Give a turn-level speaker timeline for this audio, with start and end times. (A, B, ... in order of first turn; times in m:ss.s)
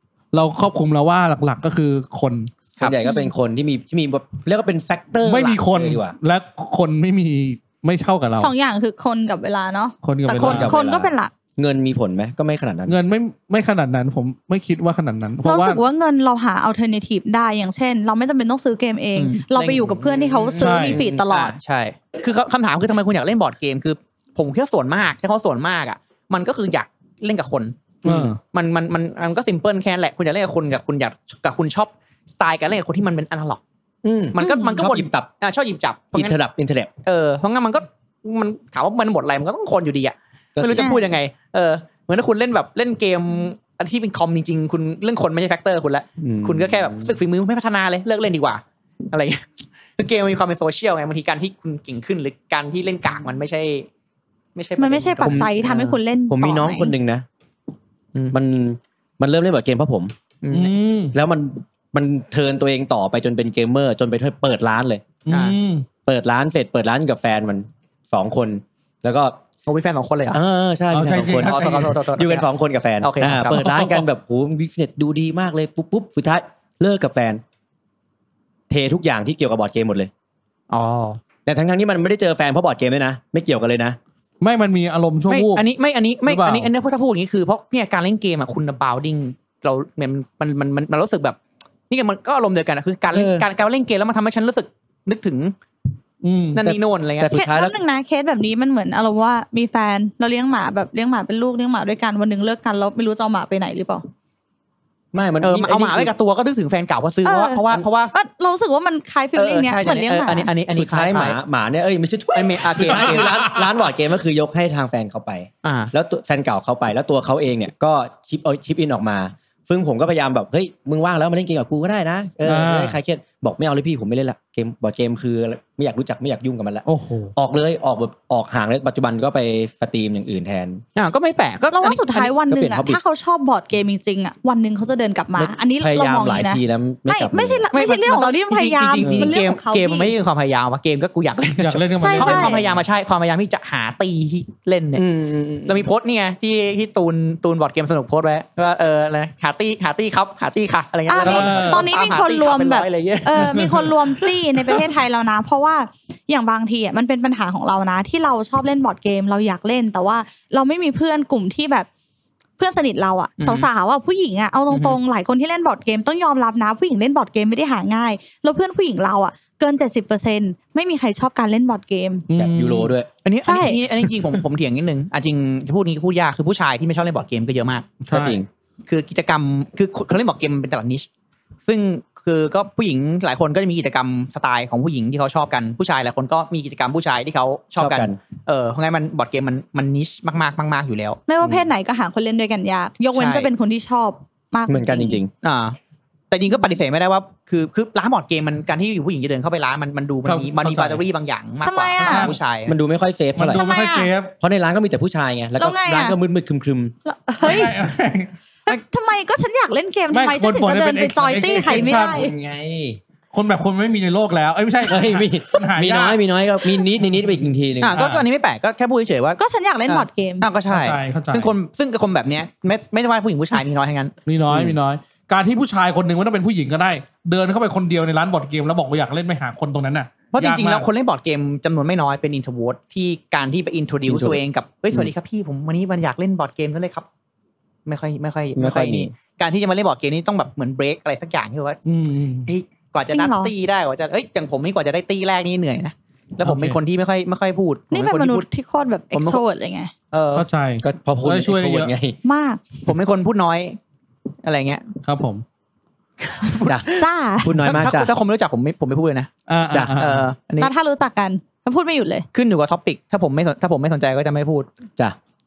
0:00.3-0:02.5 A
0:02.8-0:06.1 B
0:05.2-0:08.5 A
0:08.4-0:11.3 C
0:10.0-0:10.7 A
0:10.4-0:13.0 B
0:12.9-0:15.8 A
0:15.4-0:21.5 C
0:19.2-0:27.8 D
0:19.9-0:21.2 B
0:20.6-0:21.0 A
0:28.0-0:28.3 B
0:28.0-0:28.4 A
0:28.4-0:33.6 D
0:34.0-0:35.3 B
0:34.3-0:36.4 D
0:34.4-0:34.9 C
0:36.1-0:36.9 B
0:37.0-0:49.5 D
0:40.6-0:40.9 B
0:40.8-0:41.1 C
0:46.2-0:47.1 B
0:50.0-0:53.9 D
0:54.5-0:55.9 D
0:54.8-0:56.9 C
0:55.2-0:57.2 B
0:58.3-1:00.1 B
1:00.4-1:00.7 D
1:00.5-1:01.1 A
1:01.1-1:05.0 B
1:05.3-1:05.9 A
1:05.3-1:05.6 D
1:06.0-1:09.4 B
1:09.7-1:10.4 D
1:10.3-1:17.4 B
1:10.9-1:12.0 A
1:11.4-1:12.5 D
1:13.0-1:14.0 D
1:18.7-1:20.1 B
1:20.7-1:21.2 D
1:21.4-1:24.0 B
1:24.4-1:25.6 A
1:25.3-1:31.4 D
1:26.2-1:26.7 A
1:31.9-1:35.5 D
1:33.1-1:33.4 B
1:36.2-1:36.7 A
1:36.5-1:37.4 D
1:36.6-1:37.8 B
1:37.3-1:44.0 C
1:45.1-1:46.1 B
1:45.4-1:48.2 D
1:47.2-1:50.5 C
1:49.3-1:51.4 D
1:50.7-2:10.8 B
1:52.3-1:53.4 D
1:55.6-1:55.9 D
2:02.4-2:03.0 A
2:06.9-2:07.3 A
2:11.0-2:12.3 D
2:11.7-2:20.1 C
2:12.5-2:13.0 B
2:15.3-2:17.6 B
2:17.7-2:25.0 D
2:19.0-2:19.3 A
2:21.6-2:22.6 A
2:22.0-2:22.6 C
2:24.9-2:25.8 B
2:25.6-2:34.8 D
2:31.1-2:41.9 C
2:31.2-2:31.9 A
2:33.4-2:33.9 A
2:42.6-2:52.2 C
2:43.4-2:43.7 D
2:44.7-2:45.0 D
2:52.3-2:52.9 A
2:52.3-2:53.1 B
2:53.2-2:57.9 D
2:53.4-2:53.8 C
2:58.0-2:58.4 A
2:58.1-2:58.5 B
2:58.9-3:01.1 D
3:01.7-3:11.2 D
3:07.8-3:08.2 B
3:11.3-3:15.2 C
3:11.4-3:11.7 B
3:13.1-3:13.5 D
3:14.7-3:15.3 B
3:15.4-3:15.8 D
3:16.3-3:22.8 D
3:20.2-3:21.0 A
3:21.6-3:22.3 C
3:22.0-3:22.4 A
3:22.7-3:23.6 B
3:23.4-3:24.3 A
3:23.5-3:24.1 C
3:24.4-3:26.9 B
3:25.6-3:26.2 C
3:27.0-3:27.7 C
3:27.4-3:28.8 A
3:28.7-3:32.3 C
3:30.1-3:32.3 A
3:31.6-3:33.0 B
3:33.3-3:36.2 A
3:34.8-3:38.0 B
3:37.0-3:37.3 A
3:37.8-3:44.1 D
3:37.9-3:38.2 A
3:39.4-3:40.5 C
3:40.7-3:41.5 A
3:44.2-3:50.9 A
3:44.5-3:44.8 B
3:50.3-3:57.0 D
3:54.1-3:54.4 B
3:57.9-4:01.8 D
3:58.5-3:59.1 B
4:01.9-4:02.5 A
4:02.4-4:08.5 D
4:03.1-4:03.5 C
4:06.4-4:06.8 A
4:07.9-4:09.9 C
4:09.1-4:09.4 D
4:10.1-4:10.4 D
4:10.3-4:11.9 A
4:10.8-4:12.2 B
4:12.2-4:12.6 C
4:12.8-4:13.8 D
4:14.4-4:14.9 D
4:15.0-4:15.4 A
4:16.2-4:19.3 D
4:17.0-4:17.6 C
4:17.4-4:18.1 B
4:19.5-4:20.2 A
4:20.0-4:20.7 D
4:20.6-4:22.2 C
4:22.3-4:24.7 D